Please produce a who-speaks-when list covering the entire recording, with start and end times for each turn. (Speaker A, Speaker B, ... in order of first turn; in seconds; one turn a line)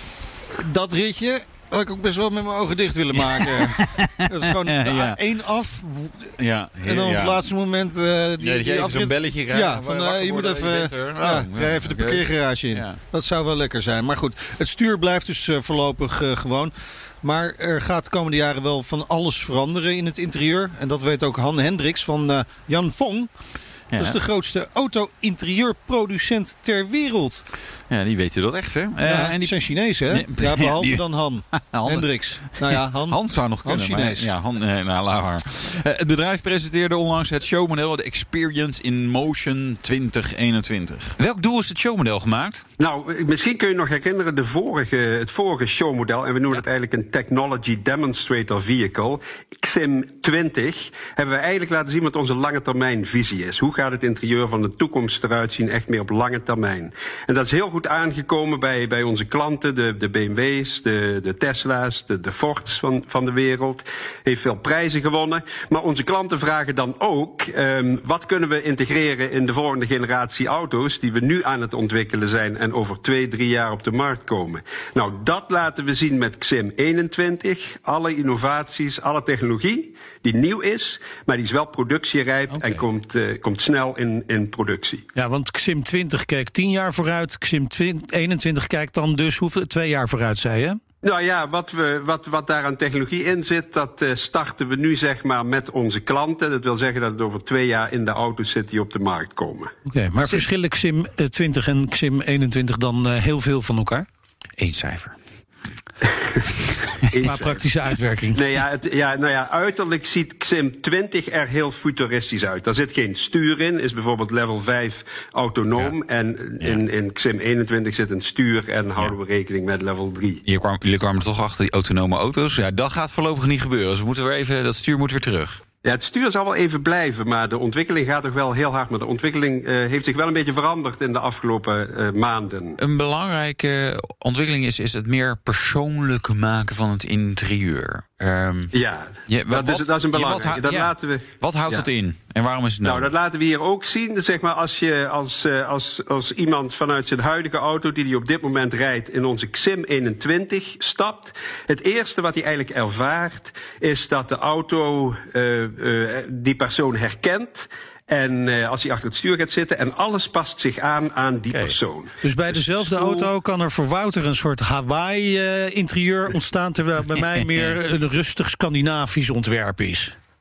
Speaker A: 0.5-23.4
Speaker B: 3.4-5.2
Speaker B: 6.4-7.4
Speaker B: 8.4-13.0
Speaker B: 23.9-24.2
Speaker A: 23.9-27.4
Speaker B: 27.9-42.6
Speaker A: 29.0-34.3
Speaker C: 42.8-85.1
Speaker A: 82.5-82.8
Speaker A: 85.2-90.8
Speaker C: 91.0-99.7
Speaker A: 99.8-104.0
Speaker B: 100.2-100.5
Speaker B: 104.6-105.2
Speaker C: 107.1-107.7
Speaker A: 107.2-108.4
Speaker C: 108.3-120.4
Speaker B: 120.5-125.6
Speaker C: 125.8-132.8
Speaker B: 132.8-138.7
Speaker C: 138.7-141.8
Speaker B: 139.3-143.1
Speaker C: 142.8-163.3
Speaker A: 161.5-170.2